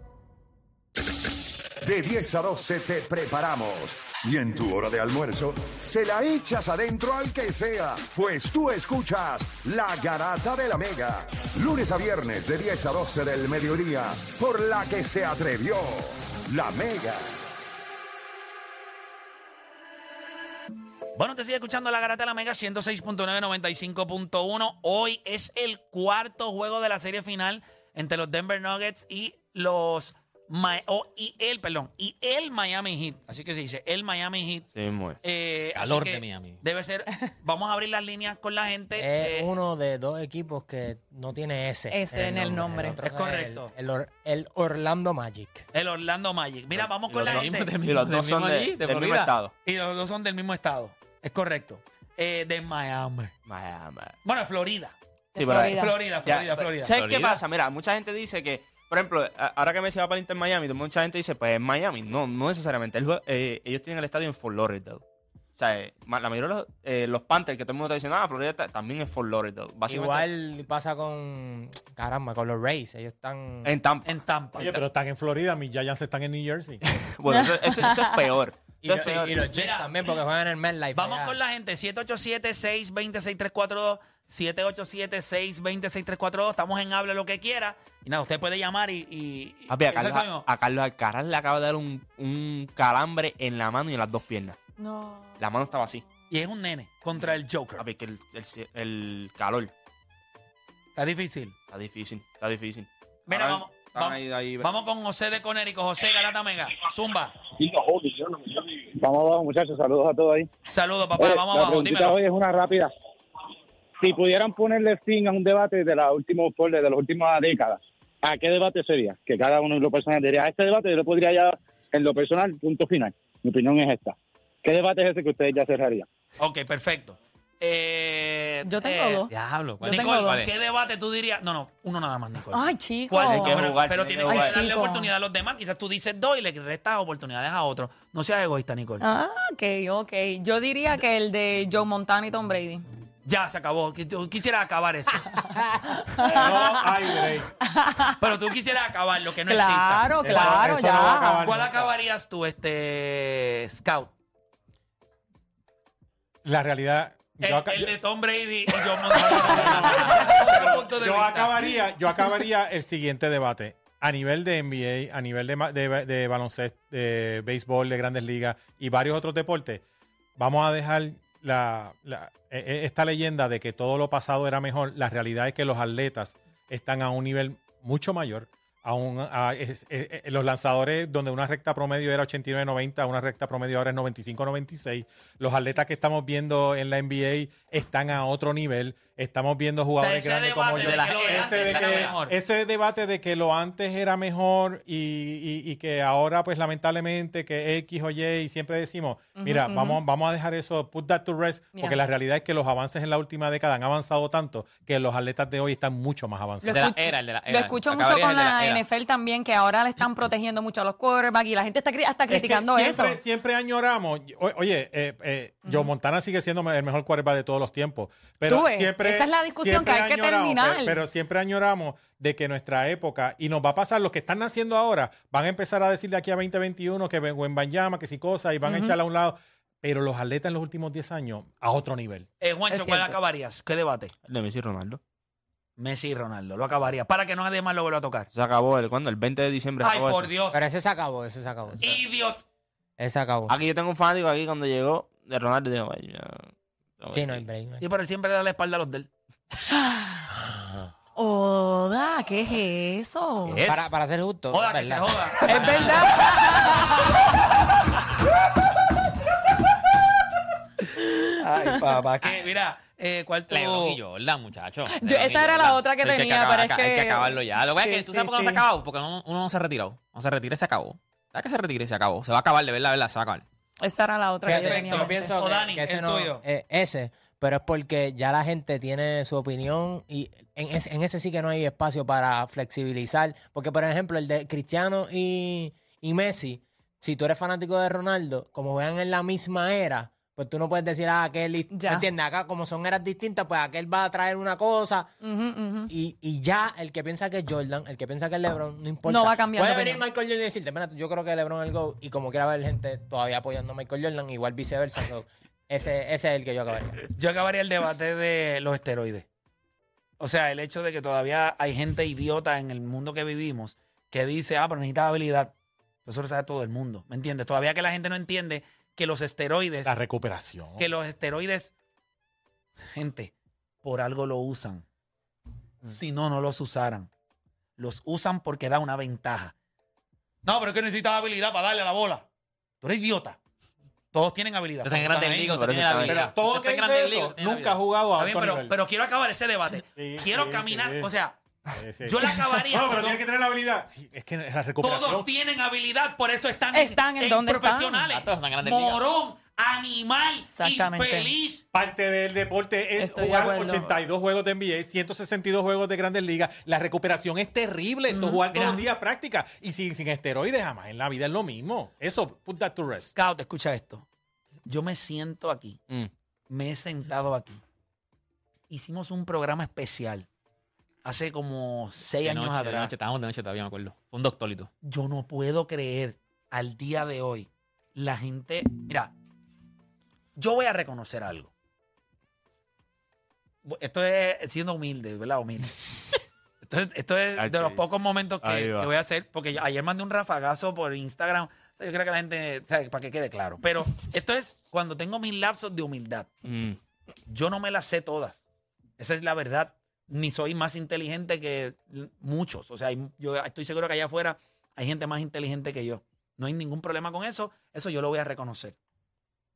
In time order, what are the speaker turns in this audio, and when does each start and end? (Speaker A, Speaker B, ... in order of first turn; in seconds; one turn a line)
Speaker A: 1.8-17.3
Speaker B: 21.1-34.7
Speaker C: 34.7-35.2
Speaker B: 35.2-39.5
Speaker D: 35.7-36.6
Speaker E: 39.0-45.7
Speaker F: 41.9-43.0
Speaker B: 43.0-43.7
Speaker B: 45.7-47.7
Speaker C: 46.7-49.5
Speaker D: 47.2-49.3
Speaker B: 49.6-53.3
Speaker C: 53.5-54.1
Speaker B: 54.2-55.0
Speaker F: 55.3-55.9
Speaker C: 55.4-65.0
Speaker B: 55.7-56.9
Speaker D: 56.9-57.4
Speaker C: 65.5-70.3
Speaker E: 69.9-73.7
Speaker C: 73.6-74.8
Speaker B: 74.0-74.7
Speaker G: 74.6-76.8
Speaker C: 76.8-79.3
Speaker F: 77.3-78.2
Speaker E: 78.8-81.4
Speaker B: 78.9-80.2
Speaker B: 80.9-90.5
Speaker C: 89.7-94.6
Speaker F: 94.8-95.3
Speaker C: 95.4-96.0
Speaker B: 96.3-97.8
Speaker C: 97.8-99.7
Speaker B: 100.9-101.5
Speaker C: 101.7-104.8
Speaker B: 103.3-107.4
Speaker H: 107.5-110.5
Speaker B: 110.7-112.2
Speaker H: 111.2-112.9
Speaker H: 114.0-126.1
Speaker B: 126.4-129.2
Speaker F: 128.6-130.4
Speaker D: 129.3-130.5
Speaker B: 129.9-139.0
Speaker F: 132.5-133.7
Speaker C: 133.2-134.6
Speaker F: 134.2-135.1
Speaker F: 139.0-142.8
Speaker B: 143.2-145.4
Speaker F: 145.9-146.8
Speaker G: 146.1-147.5
Speaker F: 147.6-148.2
Speaker B: 148.2-150.7
Speaker F: 149.5-151.5
Speaker G: 150.2-151.9
Speaker B: 151.4-154.1
Speaker G: 156.4-157.9
Speaker B: 157.4-161.5
Speaker G: 159.1-169.8
Speaker G: 170.4-207.0
Speaker B: 190.0-192.3
Speaker D: 190.8-192.1
Speaker F: 199.4-200.0
Speaker F: 206.6-213.2
Speaker D: 206.7-208.8
Speaker G: 212.3-232.3
Speaker F: 218.4-221.0
Speaker F: 228.6-229.0
Speaker B: 232.4-234.1
Speaker F: 232.7-233.1
Speaker C: 234.2-235.0
Speaker B: 235.8-238.3
Speaker C: 238.3-240.3
Speaker B: 239.8-240.6
Speaker E: 240.5-242.0
Speaker B: 241.8-242.4
Speaker E: 243.0-243.5
Speaker C: 243.5-247.4
Speaker E: 247.1-247.8
Speaker B: 247.8-249.1
Speaker F: 249.7-250.1
Speaker F: 251.2-253.6
Speaker D: 253.5-253.9
Speaker E: 253.6-255.9
Speaker B: 254.5-256.7
Speaker F: 255.4-257.2
Speaker B: 261.4-264.0
Speaker D: 263.5-273.4
Speaker F: 264.9-268.6
Speaker F: 273.8-275.1
Speaker E: 274.4-295.1
Speaker B: 274.6-276.4
Speaker F: 291.7-292.1
Speaker F: 295.2-295.9
Speaker E: 295.9-307.1
Speaker F: 299.1-300.0
Speaker B: 307.2-309.3
Speaker B: 310.2-315.5
Speaker B: 316.1-319.9
Speaker G: 319.9-320.9
Speaker B: 320.8-321.7
Speaker B: 322.9-323.3
Speaker B: 323.8-324.8
Speaker B: 325.8-327.1
Speaker B: 327.8-329.5
Speaker B: 330.4-332.2
Speaker B: 332.8-333.4
Speaker B: 334.1-335.0
Speaker D: 334.8-337.8
Speaker C: 334.9-336.3
Speaker G: 336.1-338.7
Speaker B: 338.1-341.4
Speaker G: 339.9-341.1
Speaker G: 341.8-345.3
Speaker B: 342.1-343.2
Speaker B: 344.8-351.6
Speaker F: 346.7-348.0
Speaker D: 348.1-349.0
Speaker F: 350.5-351.3
Speaker G: 351.7-363.1
Speaker F: 353.0-353.9
Speaker F: 358.1-358.8
Speaker B: 363.1-364.0
Speaker B: 364.6-365.8
Speaker B: 366.5-367.6
Speaker B: 368.7-370.3
Speaker B: 371.0-372.9
Speaker D: 372.2-374.7
Speaker B: 374.8-379.1
Speaker B: 380.4-381.5
Speaker B: 383.6-385.7
Speaker B: 386.6-396.3
Speaker C: 387.4-387.8
Speaker C: 388.4-388.9
Speaker C: 396.4-396.8
Speaker B: 397.3-398.4
Speaker B: 399.0-408.8